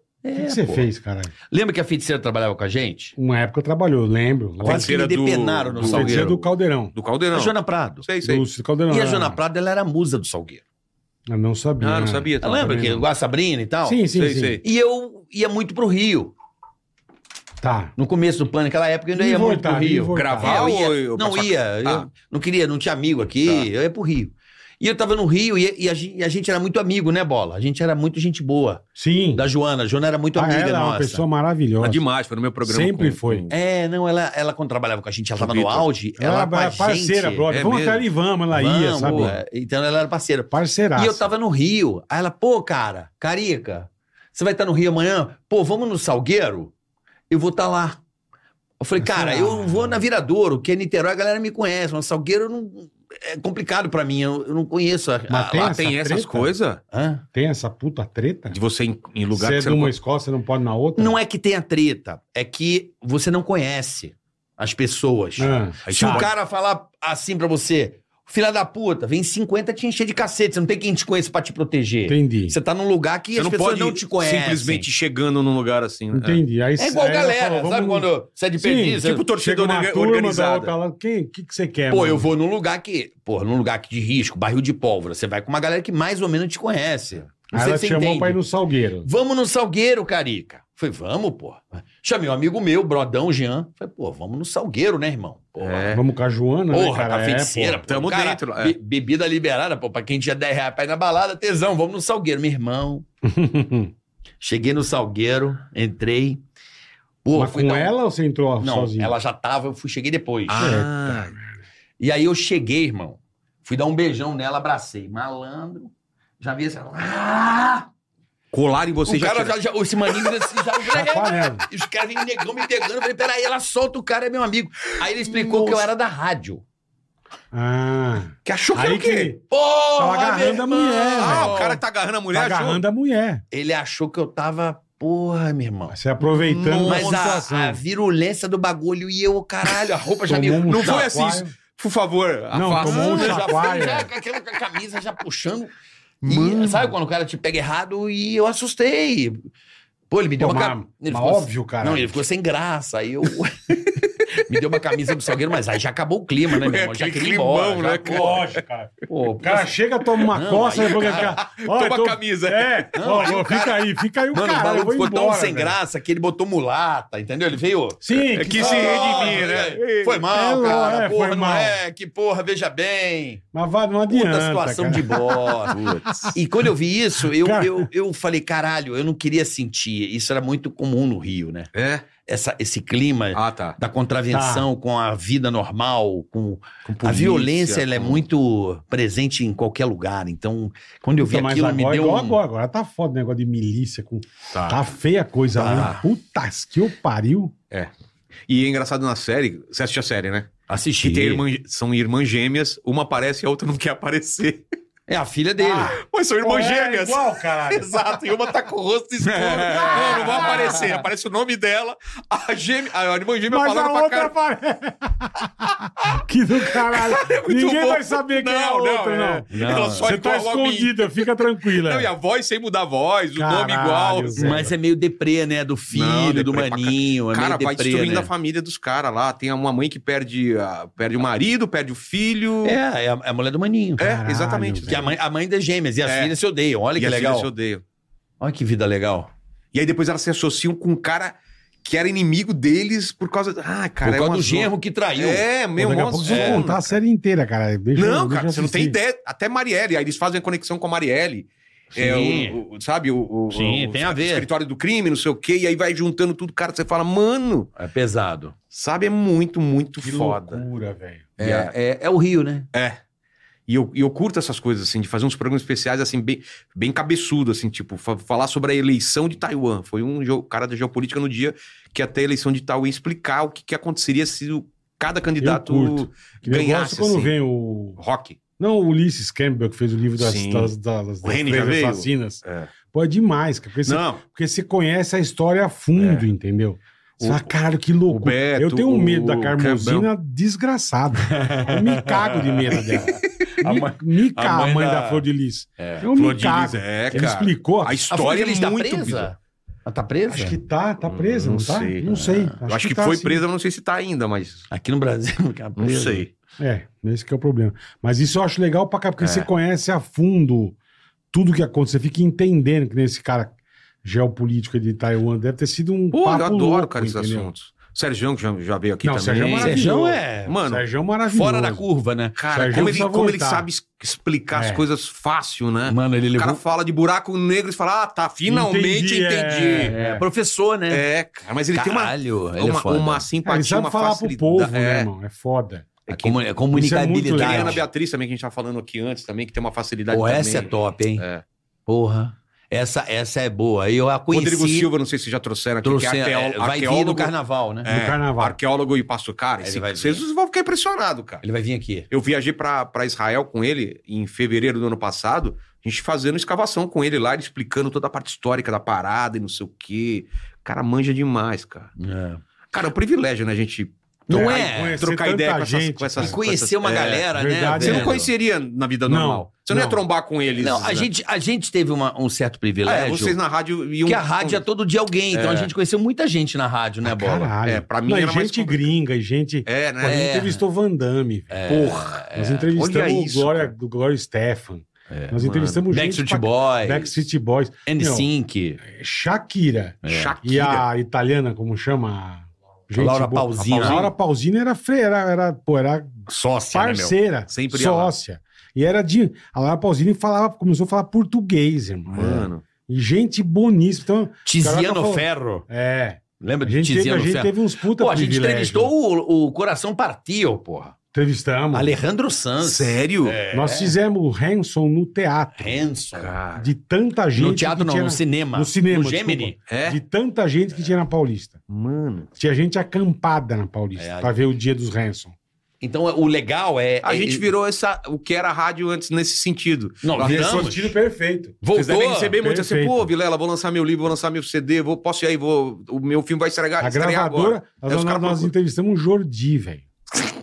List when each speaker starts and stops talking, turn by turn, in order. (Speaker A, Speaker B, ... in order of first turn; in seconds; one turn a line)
Speaker A: 0.2-0.9
Speaker B: 0.4-1.3
Speaker A: 1.5-3.1
Speaker B: 3.2-5.0
Speaker A: 4.6-6.4
Speaker C: 4.6-8.4
Speaker B: 5.8-6.9
Speaker A: 7.3-8.1
Speaker B: 8.2-9.4
Speaker A: 8.9-10.6
Speaker B: 11.3-13.0
Speaker C: 11.8-12.8
Speaker A: 12.4-14.0
Speaker B: 13.8-14.6
Speaker C: 14.1-14.6
Speaker A: 14.6-16.3
Speaker B: 17.6-17.9
Speaker A: 17.9-28.8
Speaker B: 19.2-20.7
Speaker C: 20.1-22.1
Speaker B: 28.9-29.4
Speaker A: 29.3-31.2
Speaker B: 30.3-32.0
Speaker C: 31.8-33.5
Speaker B: 32.6-33.5
Speaker A: 33.5-37.5
Speaker C: 35.4-35.9
Speaker B: 36.2-39.4
Speaker C: 37.5-38.0
Speaker A: 38.5-46.7
Speaker C: 39.0-39.3
Speaker B: 40.5-41.3
Speaker A: 47.3-48.0
Speaker A: 48.8-55.7
Speaker B: 49.0-50.0
Speaker B: 55.3-56.5
Speaker C: 55.5-56.8
Speaker A: 56.9-57.2
Speaker B: 57.3-58.6
Speaker C: 58.5-59.9
Speaker B: 59.3-61.2
Speaker A: 61.0-74.9
Speaker B: 65.4-66.3
Speaker C: 65.9-66.3
Speaker B: 72.1-72.6
Speaker C: 73.4-76.4
Speaker B: 76.1-82.3
Speaker A: 76.8-79.2
Speaker C: 79.0-80.7
Speaker A: 81.9-88.4
Speaker B: 87.5-89.1
Speaker A: 89.0-95.9
Speaker C: 95.6-96.0
Speaker B: 95.9-97.8
Speaker A: 96.7-103.0
Speaker C: 97.9-98.8
Speaker B: 103.2-103.9
Speaker A: 104.4-106.4
Speaker A: 107.2-108.0
Speaker B: 107.3-109.1
Speaker A: 108.6-110.8
Speaker C: 110.5-111.4
Speaker B: 110.6-111.3
Speaker A: 112.0-117.9
Speaker C: 118.5-119.6
Speaker A: 119.0-126.6
Speaker C: 120.1-120.4
Speaker B: 120.9-121.7
Speaker C: 125.0-125.9
Speaker B: 127.5-129.4
Speaker C: 128.4-129.3
Speaker A: 129.5-131.8
Speaker B: 130.0-131.7
Speaker C: 131.2-132.8
Speaker B: 132.3-133.4
Speaker A: 133.5-136.0
Speaker B: 135.9-137.8
Speaker C: 136.2-137.4
Speaker A: 136.8-141.1
Speaker B: 140.3-141.5
Speaker C: 140.7-143.4
Speaker B: 142.5-144.1
Speaker A: 142.8-145.7
Speaker C: 146.2-146.9
Speaker A: 146.2-149.4
Speaker A: 150.1-158.4
Speaker B: 150.4-152.2
Speaker C: 156.5-158.6
Speaker B: 158.1-165.8
Speaker A: 159.1-161.4
Speaker C: 160.8-163.7
Speaker A: 162.9-163.7
Speaker A: 164.3-173.4
Speaker B: 168.0-171.8
Speaker C: 168.3-170.2
Speaker B: 173.5-176.4
Speaker A: 174.1-175.8
Speaker C: 175.7-176.3
Speaker A: 176.3-181.7
Speaker B: 177.2-177.9
Speaker C: 181.7-182.1
Speaker A: 182.2-192.4
Speaker C: 183.3-183.8
Speaker B: 184.3-184.7
Speaker C: 186.8-188.2
Speaker B: 191.2-197.5
Speaker C: 194.5-194.8
Speaker A: 195.6-196.0
Speaker C: 198.5-204.6
Speaker A: 200.7-201.4
Speaker A: 205.1-205.9
Speaker B: 205.6-208.2
Speaker C: 205.8-214.3
Speaker A: 209.2-211.0
Speaker B: 209.9-210.8
Speaker B: 213.5-222.1
Speaker C: 216.7-224.6
Speaker A: 219.5-220.1
Speaker B: 223.4-224.7
Speaker A: 224.4-228.3
Speaker C: 225.9-232.8
Speaker A: 232.6-234.1
Speaker C: 234.0-235.1
Speaker B: 234.0-235.1
Speaker A: 234.9-237.5
Speaker C: 236.1-236.3
Speaker C: 236.9-237.8
Speaker A: 238.4-239.3
Speaker C: 239.7-246.9
Speaker A: 244.0-245.4
Speaker B: 245.8-248.9
Speaker A: 246.3-246.7
Speaker C: 247.9-257.7
Speaker A: 251.9-252.6
Speaker A: 253.5-254.5
Speaker A: 257.8-258.5
Speaker C: 258.7-260.6
Speaker B: 260.0-261.3
Speaker C: 261.4-261.7
Speaker A: 261.4-262.7
Speaker C: 263.7-277.3
Speaker B: 275.4-278.0
Speaker C: 278.0-278.4
Speaker B: 278.6-298.0
Speaker C: 280.2-280.7
Speaker C: 281.2-282.7
Speaker C: 283.8-284.2
Speaker C: 286.0-286.3
Speaker C: 287.2-287.5
Speaker C: 288.1-290.1
Speaker A: 291.3-295.3
Speaker A: 295.8-296.1
Speaker C: 296.0-299.3
Speaker A: 298.1-300.6
Speaker B: 300.3-303.4
Speaker C: 301.0-302.1
Speaker A: 302.1-302.6
Speaker C: 302.6-304.7
Speaker A: 304.7-306.3
Speaker C: 305.8-306.3
Speaker B: 306.6-310.8
Speaker C: 309.2-309.5
Speaker B: 311.3-317.5
Speaker C: 316.1-319.9
Speaker B: 319.0-321.8
Speaker A: 319.6-320.6
Speaker C: 320.5-320.8
Speaker A: 321.3-322.4
Speaker C: 322.4-329.9
Speaker B: 322.5-323.7
Speaker B: 324.5-324.8
Speaker A: 325.9-326.6
Speaker B: 328.4-330.2
Speaker A: 329.9-331.0
Speaker C: 330.9-335.1
Speaker A: 331.7-333.3
Speaker B: 333.4-335.9
Speaker C: 336.1-336.4
Speaker A: 336.1-337.8
Speaker B: 336.7-337.8
Speaker C: 337.3-341.4
Speaker A: 340.1-341.3
Speaker A: 341.9-344.9
Speaker C: 344.3-347.3
Speaker A: 345.8-347.9
Speaker C: 347.8-351.4
Speaker B: 347.9-348.6
Speaker A: 349.6-350.2
Speaker A: 351.4-352.1
Speaker C: 352.1-361.9
Speaker A: 362.0-362.4
Speaker C: 362.7-367.3
Speaker A: 364.3-365.0
Speaker B: 364.3-366.4
Speaker A: 366.2-368.3
Speaker B: 367.3-368.3
Speaker C: 367.8-371.1
Speaker B: 369.1-370.0
Speaker A: 370.6-373.4
Speaker C: 372.8-374.6
Speaker A: 374.1-377.5
Speaker C: 375.3-375.7
Speaker B: 377.0-388.3
Speaker C: 377.6-378.9
Speaker C: 379.7-380.4
Speaker A: 380.0-380.6
Speaker A: 381.5-382.7
Speaker C: 382.7-383.7
Speaker A: 385.1-385.4
Speaker C: 385.3-385.9
Speaker A: 385.9-387.2
Speaker A: 387.9-388.8
Speaker B: 388.8-408.9
Speaker A: 390.0-390.3
Speaker C: 390.1-390.9
Speaker A: 392.9-394.1
Speaker C: 393.7-394.1
Speaker A: 396.3-397.1
Speaker C: 397.5-398.1
Speaker C: 402.1-402.6
Speaker A: 404.4-405.6
Speaker A: 406.4-410.9
Speaker B: 411.1-411.9
Speaker A: 411.7-413.9
Speaker C: 412.6-413.4
Speaker B: 413.5-415.8
Speaker A: 415.6-416.3
Speaker C: 416.1-416.7
Speaker B: 416.6-421.6
Speaker A: 417.4-419.6
Speaker C: 419.7-420.0
Speaker C: 421.7-422.3
Speaker B: 422.4-425.3
Speaker A: 423.9-424.3
Speaker A: 425.8-427.4
Speaker C: 427.0-430.7
Speaker A: 430.0-430.9
Speaker B: 430.2-431.6
Speaker A: 431.6-432.4
Speaker C: 431.7-438.5
Speaker B: 432.4-433.1
Speaker B: 436.8-439.9